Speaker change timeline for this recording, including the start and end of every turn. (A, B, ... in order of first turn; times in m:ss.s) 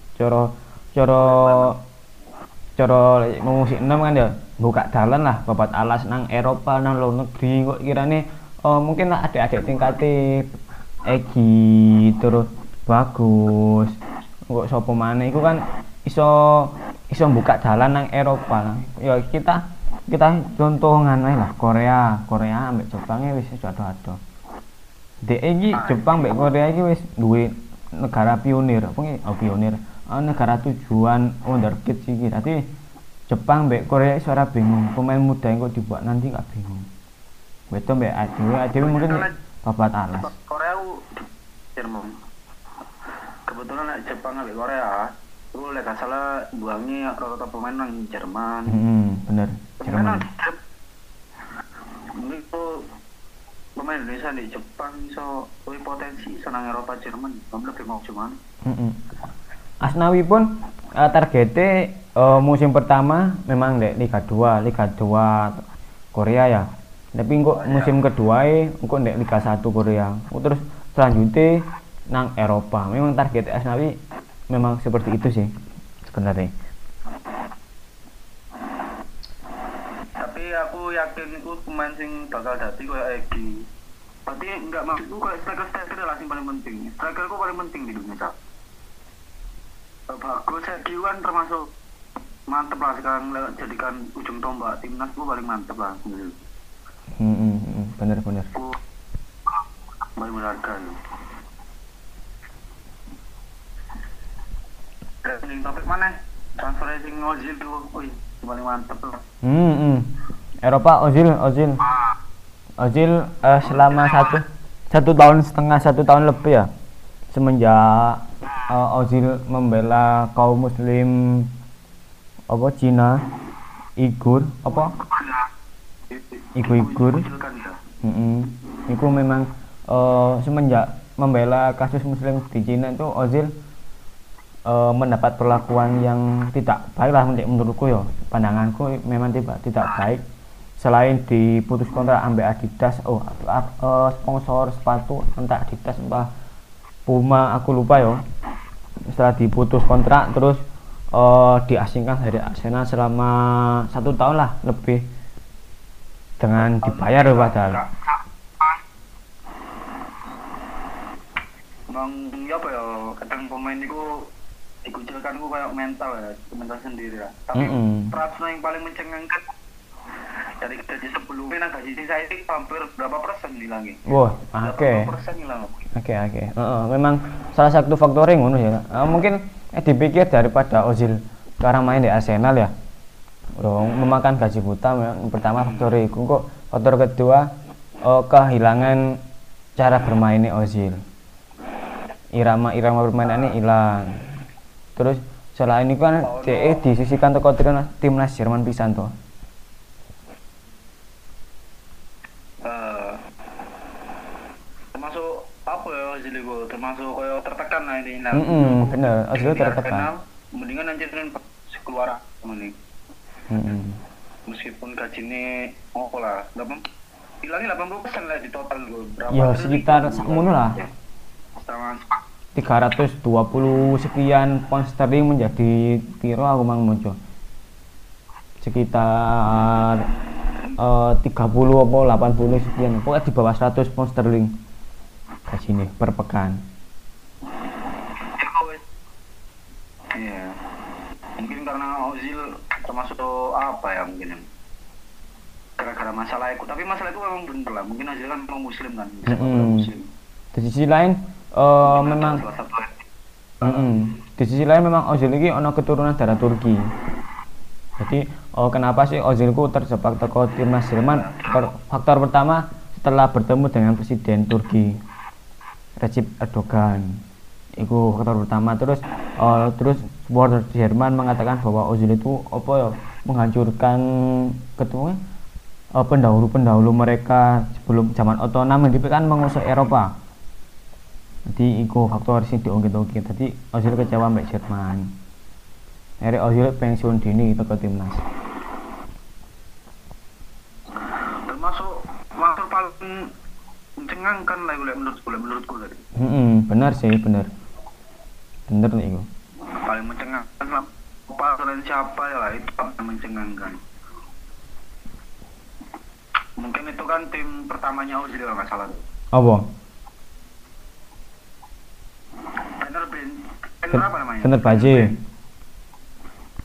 0:00.2-0:01.8 A
0:01.2-0:01.7 B
0:02.8-0:10.5 A
0:09.6-0:10.0 B
0:11.0-0:14.0 A
0:14.5-0:24.2 A
0:25.2-0:32.6 A
0:25.7-0:26.5 B
0:33.3-0:36.9 A
0:37.7-0:40.3 A
0:38.7-0:39.4 B
0:40.2-0:42.1 B
0:43.5-0:48.7 B
0:48.7-0:50.2 A
0:49.8-0:50.6 B
0:52.1-0:52.9 B
0:53.8-0:58.4 B
0:58.6-0:59.0 A
0:59.8-1:05.6 A
1:06.1-1:13.9 A
1:07.5-1:08.0 B
1:14.5-1:15.5 A
1:16.0-1:16.5 A
1:20.2-1:23.6 B
1:24.2-1:28.3 B
1:30.1-1:31.7 B
1:32.5-1:36.3 B
1:37.2-1:38.5 A
1:40.2-1:41.0 B
1:45.2-1:49.2 B
1:49.4-1:50.0 A
1:50.6-1:51.8 A
1:52.8-1:56.7 A
1:53.6-1:54.4 B
1:57.3-2:01.5 A
2:02.5-2:03.2 A
2:04.0-2:04.9 A
2:04.7-2:05.5 B
2:06.1-2:07.8 B
2:06.6-2:07.2 A
2:08.0-2:13.5 A
2:14.6-2:20.2 A
2:20.8-2:26.3 A
2:27.0-2:28.2 A
2:29.1-2:30.6 A
2:31.1-2:35.0 A
2:36.4-2:37.8 A
2:36.6-2:38.8 B
2:41.9-2:44.3 B
2:44.8-2:49.4 B
2:47.5-2:48.1 A
2:50.6-2:55.8 B
2:54.1-2:55.1 A
2:55.9-3:02.7 A
3:03.6-3:07.5 A
3:05.5-3:05.9 B
3:08.0-3:09.1 A
3:09.8-3:11.0 A
3:12.3-3:14.4 A
3:13.2-3:13.5 B
3:15.0-3:19.1 A
3:16.2-3:16.8 B
3:22.6-3:23.2 B
3:24.9-3:32.7 B
3:28.3-3:30.1 A
3:33.5-3:34.0 A
3:34.5-3:36.8 B
3:37.4-3:40.9 B
3:39.3-3:40.8 A
3:41.6-3:42.2 B
3:42.6-3:47.2 A
3:48.6-3:50.0 A
3:50.8-3:54.5 A
3:55.5-3:56.6 A
3:58.2-3:58.8 B
4:00.1-4:00.6 B
4:01.4-4:04.4 B
4:05.8-4:10.1 B
4:09.2-4:09.9 A
4:10.5-4:12.4 A
4:11.8-4:13.0 B
4:13.6-4:13.9 B
4:13.6-4:16.8 A
4:18.0-4:25.0 A
4:21.0-4:21.6 B
4:26.0-4:27.2 A
4:27.8-4:35.2 A
4:36.0-4:40.1 A
4:41.5-4:45.1 A
4:46.2-4:48.2 A
4:51.1-4:53.3 B
4:54.0-4:56.0 B
4:56.2-4:57.5 A
4:58.7-4:59.2 A
4:59.8-5:03.8 B
5:06.6-5:09.0 B
5:09.3-5:09.7 A
5:12.8-5:15.2 B
5:13.9-5:15.1 A